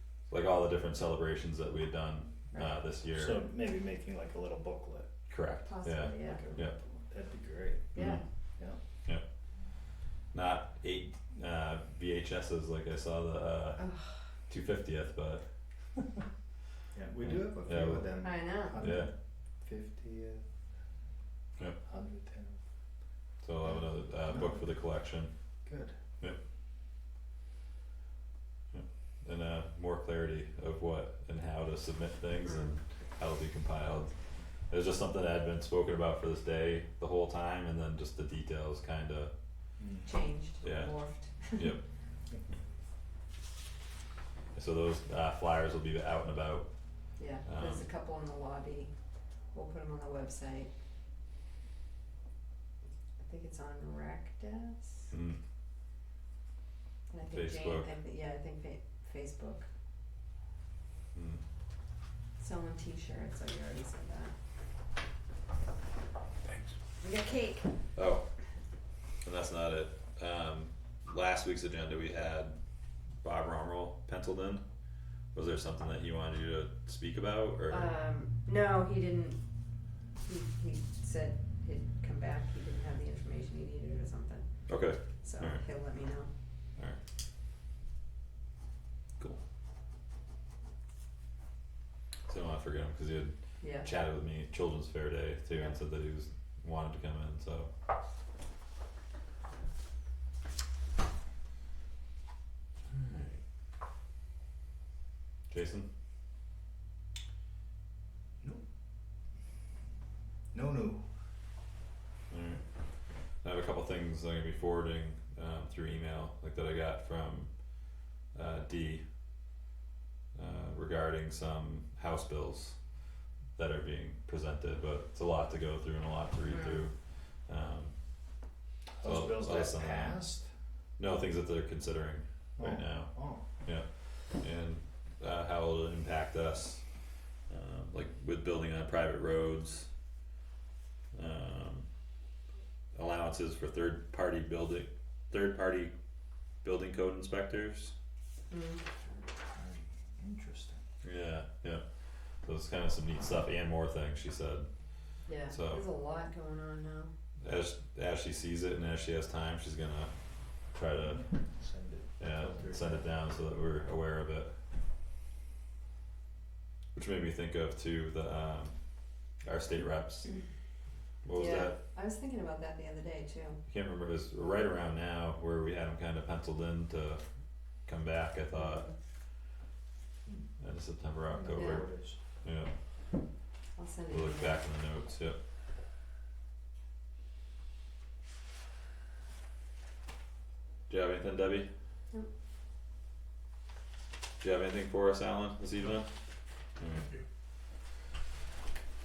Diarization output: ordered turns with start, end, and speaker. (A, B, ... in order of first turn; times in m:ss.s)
0:00.3-0:03.4 A
0:02.5-0:02.8 B
0:03.1-0:05.1 C
0:05.3-0:06.8 A
0:05.6-0:06.5 B
0:06.2-0:07.9 C
0:07.9-0:08.2 B
0:07.9-0:08.2 A
0:10.3-0:13.8 A
0:13.8-0:14.3 B
0:14.4-0:15.4 A
0:16.9-0:20.5 C
0:17.2-0:18.1 A
0:18.2-0:18.8 B
0:18.8-0:19.1 A
0:21.8-0:22.6 C
0:23.4-0:25.3 A
0:23.6-0:24.7 C
0:25.6-0:26.0 C
0:28.7-0:34.1 A
0:32.4-0:32.8 B
0:34.7-0:39.3 A
0:39.8-0:40.1 C
0:40.0-0:41.8 B
0:40.6-0:40.9 A
0:41.5-0:41.8 A
0:44.5-0:46.7 A
0:47.2-0:48.9 B
0:47.4-0:47.8 A
0:49.5-0:50.7 B
0:53.2-0:55.1 B
0:55.1-0:55.4 A
0:57.1-0:59.7 B
0:57.2-0:57.9 A
1:01.1-1:01.4 A
1:02.4-1:04.3 B
1:06.4-1:06.7 C
1:07.0-1:07.7 B
1:08.0-1:08.2 A
1:09.2-1:12.6 A
1:13.2-1:14.6 A
1:15.3-1:17.9 A
1:17.7-1:19.4 B
1:20.2-1:26.3 B
1:24.7-1:25.6 A
1:32.3-1:37.7 A
1:33.6-1:33.8 B
1:42.9-1:43.4 A
1:45.5-1:45.9 A
1:50.5-1:51.0 C
1:52.3-1:52.6 A
1:53.4-1:57.5 A
1:58.3-1:59.0 A
2:00.3-2:02.8 A
2:03.6-2:07.0 A
2:06.5-2:06.8 B
2:07.4-2:07.9 A
2:08.9-2:10.5 C
2:09.0-2:10.2 A
2:11.0-2:13.1 A
2:12.6-2:13.4 C
2:14.4-2:16.8 A
2:17.5-2:19.9 A
2:21.1-2:21.9 A
2:22.9-2:25.9 A
2:26.6-2:27.9 A
2:28.5-2:28.8 B
2:29.1-2:30.8 C
2:31.0-2:31.8 A
2:32.4-2:34.7 A
2:35.2-2:37.1 B
2:35.5-2:35.8 A
2:37.4-2:41.3 A
2:41.2-2:43.0 C
2:42.2-2:44.5 A
2:46.9-2:48.8 A
2:49.4-2:50.3 A
2:51.2-2:51.8 A
2:51.3-2:53.6 B
2:53.7-2:57.2 A
2:57.8-2:58.9 A
2:58.6-2:58.9 B
3:00.6-3:01.9 A
3:01.3-3:02.2 C
3:01.5-3:01.8 B
3:02.4-3:02.7 A
3:03.8-3:04.6 B
3:04.1-3:05.4 A
3:10.9-3:11.7 A
3:14.4-3:16.1 A
3:16.8-3:17.1 A